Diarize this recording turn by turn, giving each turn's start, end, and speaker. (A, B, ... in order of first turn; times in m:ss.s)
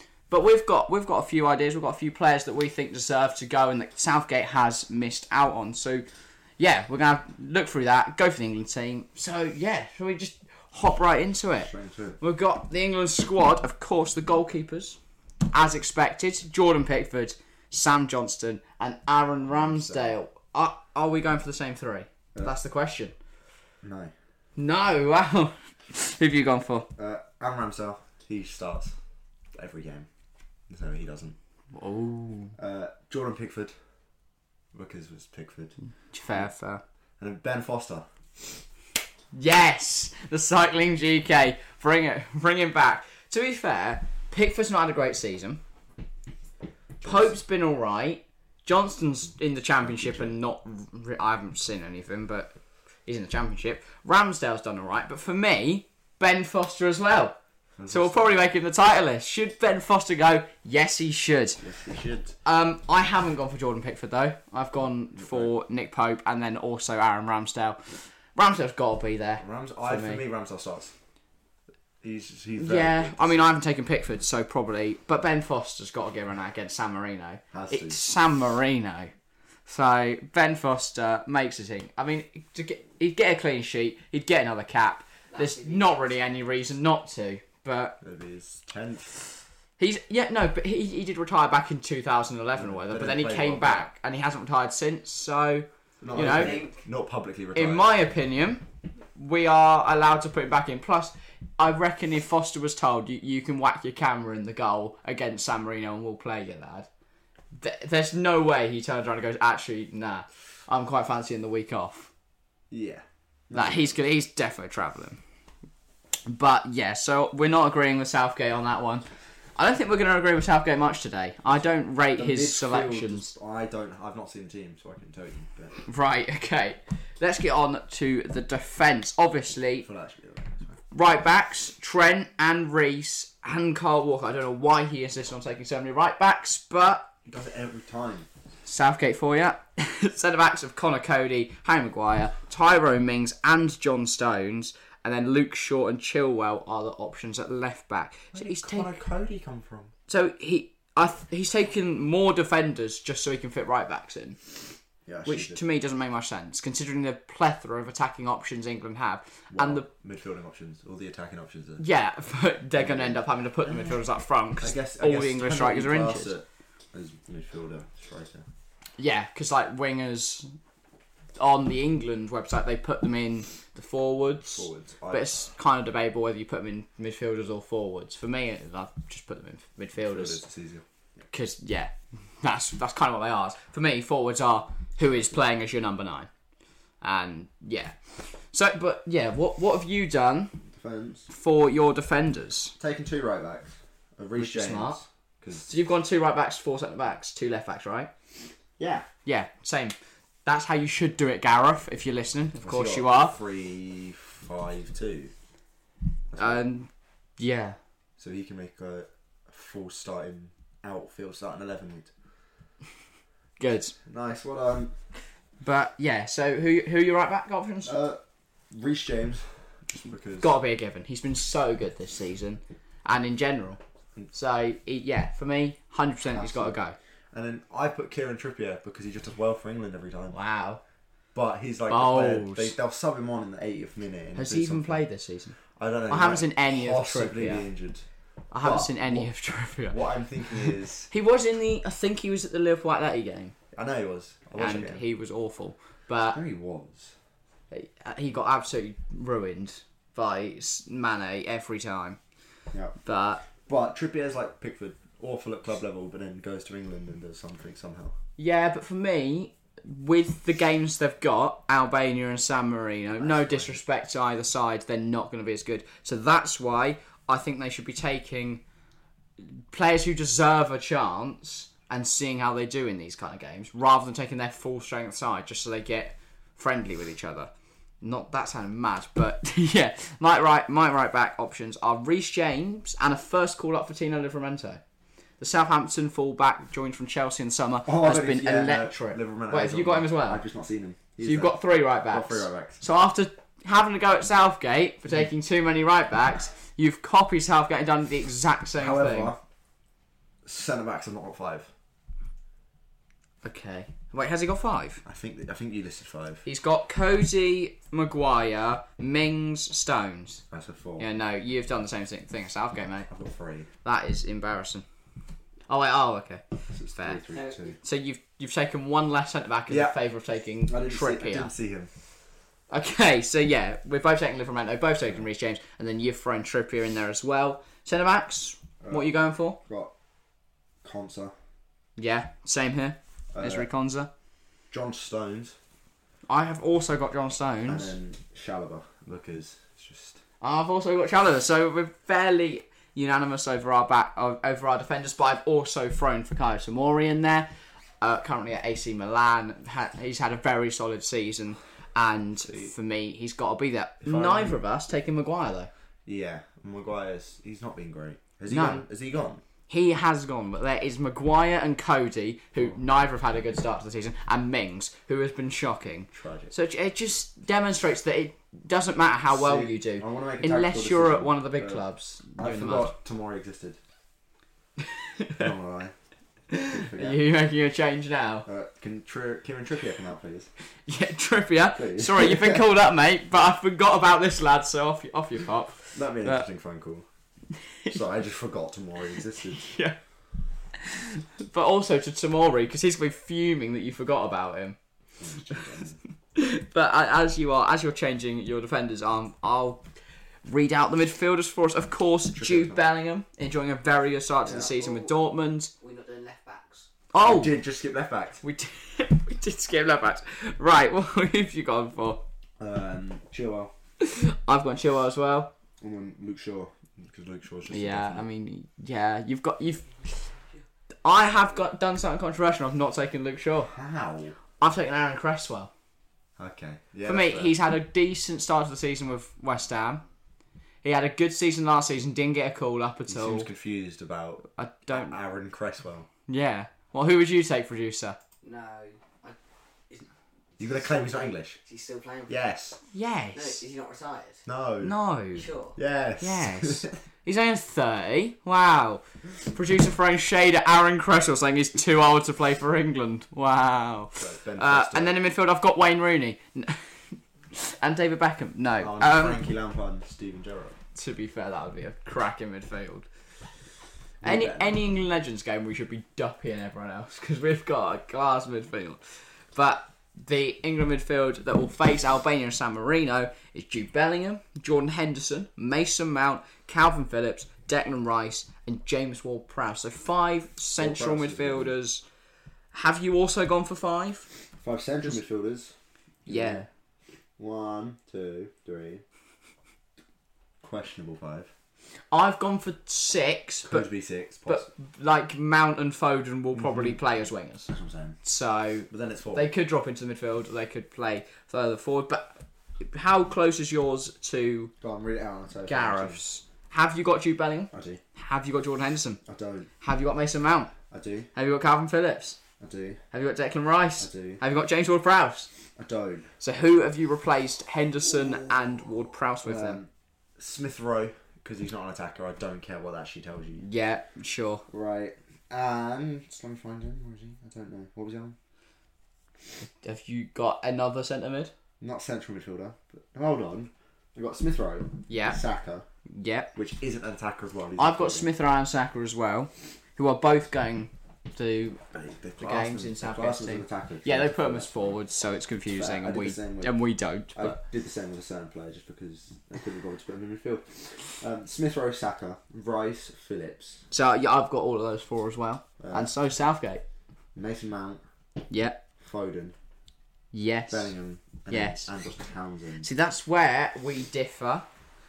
0:00.3-0:06.0 A
0:06.6-0:11.7 A
0:11.6-0:12.2 B
0:12.2-0:15.0 A
0:15.5-0:23.1 A
0:19.4-0:20.2 B
0:23.8-0:24.1 B
0:24.6-0:26.9 A
0:27.0-0:28.9 B
0:29.5-0:30.1 B
0:30.7-0:31.4 B
0:31.7-0:32.5 A
0:32.6-0:33.7 B
0:34.7-0:35.7 B
0:36.1-0:36.8 A
0:37.2-0:38.0 B
0:39.3-0:45.6 A
0:47.0-0:47.3 B
0:47.0-0:57.4 A
0:49.8-0:50.3 B
0:57.8-0:58.5 B
0:57.9-1:01.6 A
1:01.6-1:02.3 B
1:02.4-1:10.2 A
1:05.2-1:05.5 B
1:09.4-1:10.9 B
1:12.0-1:13.5 B
1:12.6-1:19.1 A
1:17.5-1:18.0 B
1:19.7-1:28.0 A
1:25.3-1:26.1 C
1:28.0-1:29.2 B
1:29.8-1:36.6 A
1:32.5-1:33.9 B
1:36.0-1:38.0 B
1:36.2-1:36.8 C
1:37.5-1:46.9 A
1:47.5-1:52.1 A
1:52.7-1:54.0 B
1:53.5-1:55.2 A
1:56.2-1:59.0 A
1:59.6-2:03.3 A
2:02.1-2:05.8 B
2:05.9-2:09.8 A
2:09.8-2:10.8 B
2:10.9-2:17.1 A
2:17.3-2:18.3 B
2:18.6-2:28.9 A
2:28.3-2:29.9 B
2:30.1-2:34.4 A
2:35.0-2:35.6 B
2:35.2-2:39.9 A
2:39.5-2:41.9 B
2:41.8-2:46.4 A
2:42.7-2:43.9 B
2:44.6-2:48.4 B
2:49.0-2:50.5 A
2:51.4-3:00.4 A
2:54.5-2:55.4 B
3:00.0-3:00.8 B
3:01.3-3:06.3 A
3:07.0-3:10.6 A
3:10.7-3:11.3 B
3:11.3-3:12.7 A
3:12.8-3:15.7 B
3:14.4-3:15.0 A
3:15.6-3:18.1 A
3:18.8-3:19.1 B
3:19.2-3:23.4 A
3:22.6-3:25.3 B
3:26.3-3:26.6 B
3:26.4-3:27.8 A
3:28.2-3:32.1 B
3:33.6-3:33.9 A
3:34.0-3:34.9 B
3:35.6-3:38.0 A
3:37.8-3:38.2 B
3:38.7-3:40.5 B
3:40.4-3:43.8 A
3:44.3-3:47.0 A
3:46.2-3:46.8 B
3:47.3-3:50.4 B
3:50.3-3:50.8 A
3:51.3-3:55.0 B
3:51.9-3:52.7 A
3:54.3-3:55.6 A
3:55.8-3:58.0 B
3:56.1-3:57.7 A
3:58.5-4:03.5 A
3:58.6-4:01.1 B
4:03.7-4:05.0 B
4:04.6-4:06.4 A
4:06.2-4:07.1 B
4:07.7-4:12.2 A
4:13.0-4:13.4 A
4:13.6-4:18.1 B
4:18.4-4:28.6 A
4:23.2-4:23.8 B
4:29.4-4:37.5 A
4:38.0-4:44.8 A
4:45.4-4:50.4 A
4:47.8-4:51.6 B
4:51.2-4:59.3 A
4:52.1-4:52.8 B
4:58.8-4:59.4 B
5:00.4-5:01.7 B
5:03.4-5:05.0 A
5:05.0-5:06.4 B
5:06.4-5:10.4 A
5:10.5-5:11.1 B
5:11.0-5:13.1 A
5:13.1-5:13.7 B
5:13.8-5:14.8 A
5:15.7-5:17.2 A
5:16.7-5:17.8 B
5:17.3-5:17.6 C
5:17.8-5:21.5 A
5:19.7-5:20.0 B
5:20.7-5:21.9 B
5:22.7-5:29.6 A
5:28.8-5:29.1 B
5:29.6-5:29.9 B
5:30.8-5:31.3 B
5:32.0-5:34.1 A
5:33.3-5:33.7 B
5:34.7-5:35.5 B
5:36.3-5:37.9 A
5:37.7-5:40.2 B
5:40.4-5:55.7 A
5:52.4-5:52.7 B
5:54.0-5:54.6 B
5:56.0-5:59.4 B
5:58.5-5:58.8 A
5:59.7-6:12.9 A
6:06.1-6:06.5 B
6:09.3-6:11.8 B
6:12.4-6:13.8 B
6:14.8-6:15.5 A
6:15.4-6:15.9 B
6:16.5-6:18.5 A
6:16.6-6:17.2 B
6:18.4-6:20.5 B
6:20.9-6:26.4 A
6:21.7-6:22.6 B
6:25.9-6:27.0 B
6:27.9-6:29.7 B
6:29.5-6:30.0 A
6:30.7-6:34.8 A
6:35.2-6:36.0 B
6:36.3-6:39.8 A
6:40.4-6:45.7 A
6:42.3-6:42.8 B
6:44.4-6:44.7 B
6:44.7-6:45.1 C
6:45.8-6:46.9 C
6:47.1-6:47.6 A
6:47.2-6:48.4 B
6:48.4-6:52.2 A
6:52.6-6:53.7 B
6:54.0-6:55.5 A
6:55.8-6:58.3 B
6:57.7-7:00.3 A
7:01.0-7:03.7 A
7:03.7-7:04.4 B
7:04.6-7:05.7 A
7:06.4-7:07.5 B
7:07.0-7:10.0 A
7:10.8-7:13.5 A
7:13.1-7:16.1 B
7:14.5-7:15.2 A
7:16.3-7:18.2 A
7:18.4-7:19.4 C
7:19.9-7:22.3 C
7:20.6-7:21.6 B
7:22.3-7:22.8 B
7:22.9-7:23.6 A
7:23.3-7:24.4 C
7:24.4-7:25.0 B
7:24.8-7:25.4 A
7:25.3-7:25.8 C
7:25.7-7:27.0 B
7:26.2-7:39.4 A
7:34.2-7:35.2 B
7:38.8-7:40.8 B
7:40.9-7:43.1 A
7:44.2-7:44.8 B
7:44.2-7:49.0 A
7:49.5-8:02.0 A
8:00.8-8:01.8 B
8:02.7-8:04.3 A
8:04.6-8:05.7 B
8:06.2-8:06.6 B
8:06.2-8:06.7 A
8:07.4-8:09.0 B
8:10.6-8:11.5 B
8:12.1-8:13.9 A
8:13.6-8:14.7 B
8:14.4-8:17.7 A
8:16.5-8:17.0 B
8:17.7-8:18.2 B
8:18.2-8:24.7 A
8:18.9-8:19.5 B
8:24.8-8:26.2 B
8:25.6-8:29.2 A
8:27.7-8:28.0 B
8:29.2-8:29.7 B
8:29.8-8:30.7 A
8:30.9-8:31.3 B
8:31.3-8:32.4 A
8:32.6-8:33.0 B
8:33.1-8:35.5 A
8:34.0-8:34.4 B
8:35.8-8:36.3 B
8:36.4-8:39.8 A
8:39.4-8:43.6 B
8:43.6-8:44.6 A
8:44.7-8:48.3 B
8:49.8-8:51.5 A
8:51.8-8:55.8 B
8:55.1-8:55.4 A
8:56.1-8:56.5 A
8:56.5-8:58.3 B
8:57.8-9:01.8 A
9:01.9-9:05.0 B
9:02.4-9:07.6 A
9:05.7-9:06.8 B
9:07.3-9:13.8 B
9:13.9-9:16.8 A
9:15.8-9:16.1 B
9:17.3-9:18.0 B
9:18.5-9:18.8 A
9:19.0-9:19.5 B
9:20.3-9:20.9 A
9:20.7-9:22.9 B
9:21.5-9:21.9 A
9:22.8-9:24.6 A